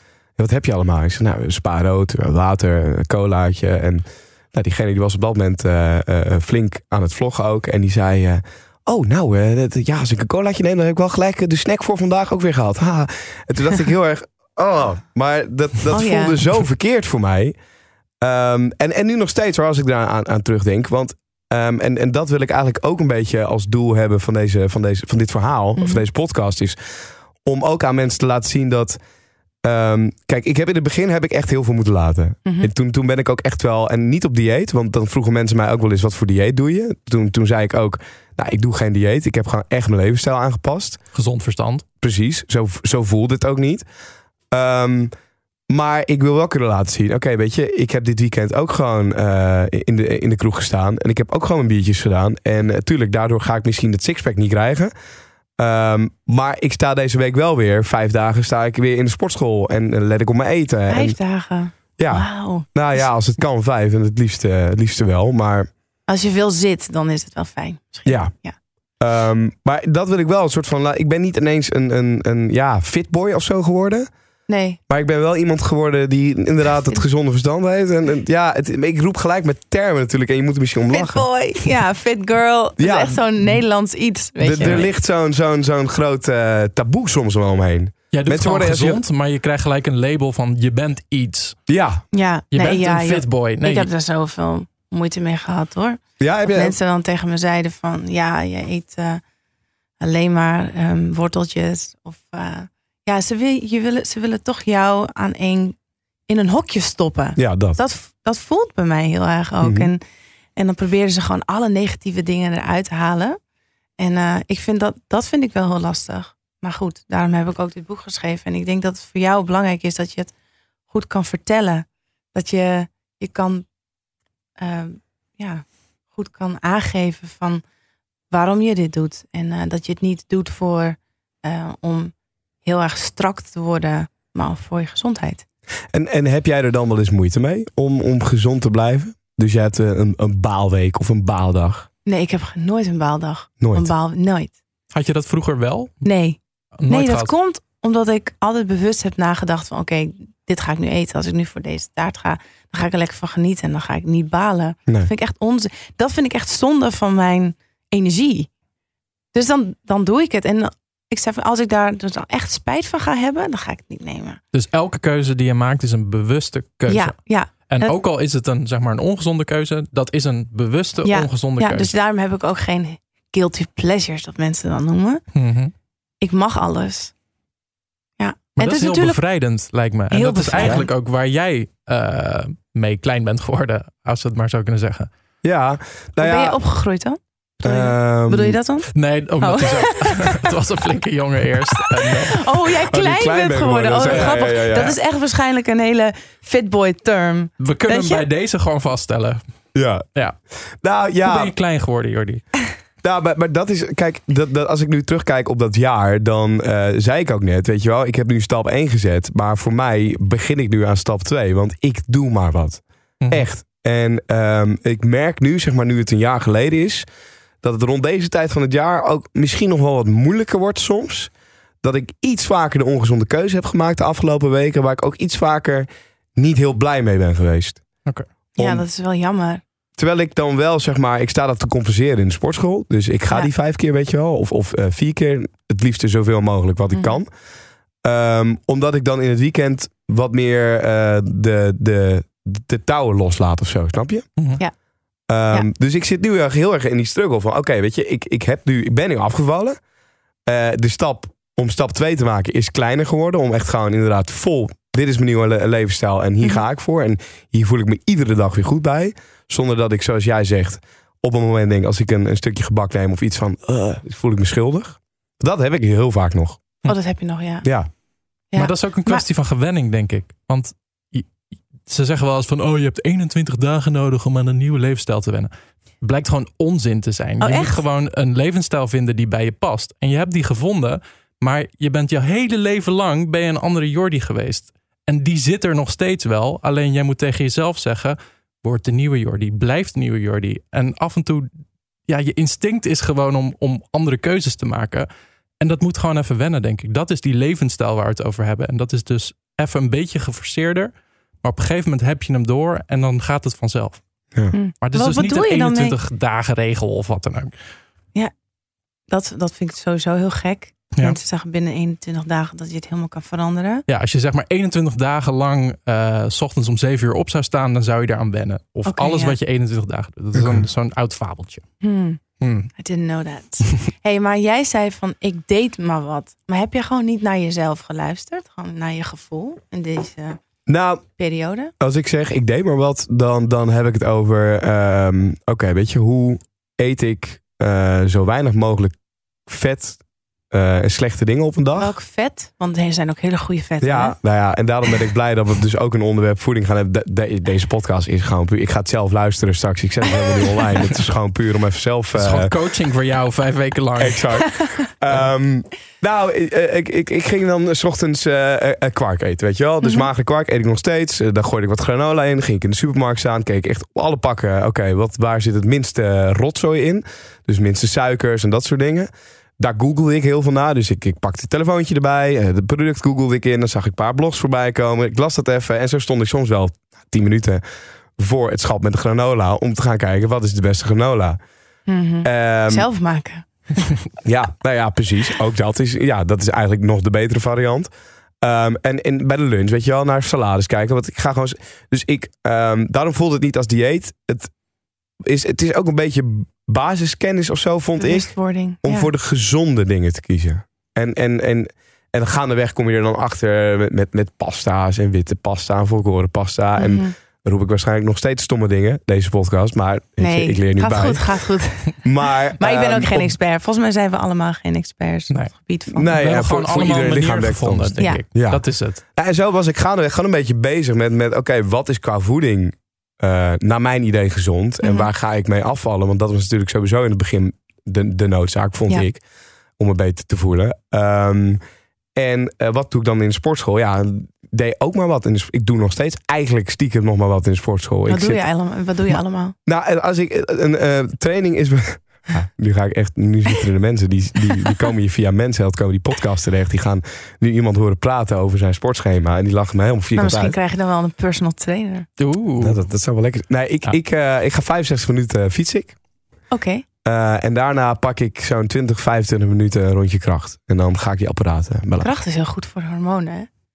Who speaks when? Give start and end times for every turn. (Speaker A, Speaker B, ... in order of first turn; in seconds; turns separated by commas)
Speaker A: 0.4-17.5, Speaker B: 15.9-16.4, Speaker A: 18.2-26.8, Speaker B: 25.8-26.0, Speaker A: 27.4-29.0, Speaker A: 29.6-41.0, Speaker C: 41.1-41.8, Speaker A: 42.0-43.9, Speaker A: 44.5-45.1, Speaker A: 45.7-54.9, Speaker A: 55.6-61.2, Speaker B: 60.9-63.0, Speaker A: 62.0-65.7, Speaker B: 66.1-68.5, Speaker A: 68.0-68.3, Speaker A: 69.0-74.1, Speaker B: 74.5-74.8, Speaker A: 74.9-81.2, Speaker B: 80.9-84.9, Speaker A: 82.8-83.2, Speaker A: 84.4-89.0, Speaker C: 84.6-84.8, Speaker C: 88.1-91.6, Speaker A: 91.7-92.0, Speaker B: 92.1-96.0, Speaker C: 92.5-93.9, Speaker A: 96.2-96.8, Speaker B: 96.5-99.2, Speaker B: 100.0-105.8, Speaker B: 106.3-110.0, Speaker A: 107.4-107.8, Speaker A: 109.6-109.9, Speaker B: 110.5-113.4, Speaker B: 114.0-120.3, Speaker B: 120.9-123.7, Speaker B: 124.6-127.6, Speaker B: 128.3-132.1, Speaker B: 132.6-135.4, Speaker A: 135.9-141.9, Speaker B: 142.1-144.5, Speaker A: 143.6-143.9, Speaker C: 144.9-146.0, Speaker B: 146.0-158.5, Speaker C: 146.7-147.3, Speaker B: 159.3-164.4, Speaker C: 164.5-167.2, Speaker B: 166.9-167.9, Speaker C: 167.7-171.9, Speaker B: 171.0-175.2, Speaker C: 175.3-175.7, Speaker B: 176.2-177.1, Speaker B: 178.2-179.2, Speaker C: 178.6-185.1, Speaker B: 180.1-180.9, Speaker A: 180.6-180.9, Speaker A: 185.4-186.6, Speaker B: 186.2-190.5, Speaker A: 187.6-188.6, Speaker C: 188.9-192.5, Speaker B: 191.8-198.2, Speaker A: 192.9-194.9, Speaker C: 194.0-194.3, Speaker C: 197.6-199.4, Speaker A: 199.7-200.0, Speaker A: 200.8-201.5, Speaker C: 201.2-202.4, Speaker A: 203.0-217.1, Speaker A: 217.6-227.8, Speaker A: 228.6-228.8, Speaker B: 228.6-229.6, Speaker A: 230.0-237.3, Speaker A: 238.0-244.3, Speaker A: 245.3-249.8, Speaker A: 250.4-266.6, Speaker B: 266.9-267.6, Speaker A: 267.6-267.9, Speaker B: 268.5-269.2, Speaker C: 268.6-271.3, Speaker C: 271.8-291.5, Speaker B: 277.4-277.8, Speaker C: 292.1-295.1, Speaker C: 295.6-300.9, Speaker C: 301.4-304.0, Speaker B: 304.5-305.9, Speaker C: 304.8-307.5, Speaker B: 309.1-313.8, Speaker C: 313.9-321.6, Speaker B: 318.9-319.4, Speaker A: 320.3-320.6, Speaker B: 321.8-322.2, Speaker C: 322.4-322.7, Speaker B: 322.8-330.4, Speaker A: 330.7-331.1, Speaker B: 331.1-331.7, Speaker A: 331.8-338.9, Speaker A: 339.4-341.9, Speaker B: 341.8-344.1, Speaker A: 343.8-352.5, Speaker C: 352.1-354.4, Speaker A: 354.0-377.6, Speaker B: 359.8-360.1, Speaker A: 378.2-381.4, Speaker B: 381.9-383.9, Speaker A: 382.2-382.8, Speaker A: 384.2-387.9, Speaker A: 388.4-394.5, Speaker A: 395.2-413.3, Speaker B: 398.0-399.1, Speaker B: 406.8-407.1, Speaker B: 410.2-416.1, Speaker A: 415.9-429.2, Speaker C: 416.1-419.0, Speaker B: 424.8-425.1, Speaker A: 429.8-431.6, Speaker A: 432.1-438.4, Speaker B: 438.1-439.6, Speaker A: 439.6-450.6, Speaker B: 450.1-452.1, Speaker C: 452.2-452.8, Speaker A: 452.6-455.9, Speaker B: 456.5-456.8, Speaker A: 457.0-462.1, Speaker B: 462.0-463.5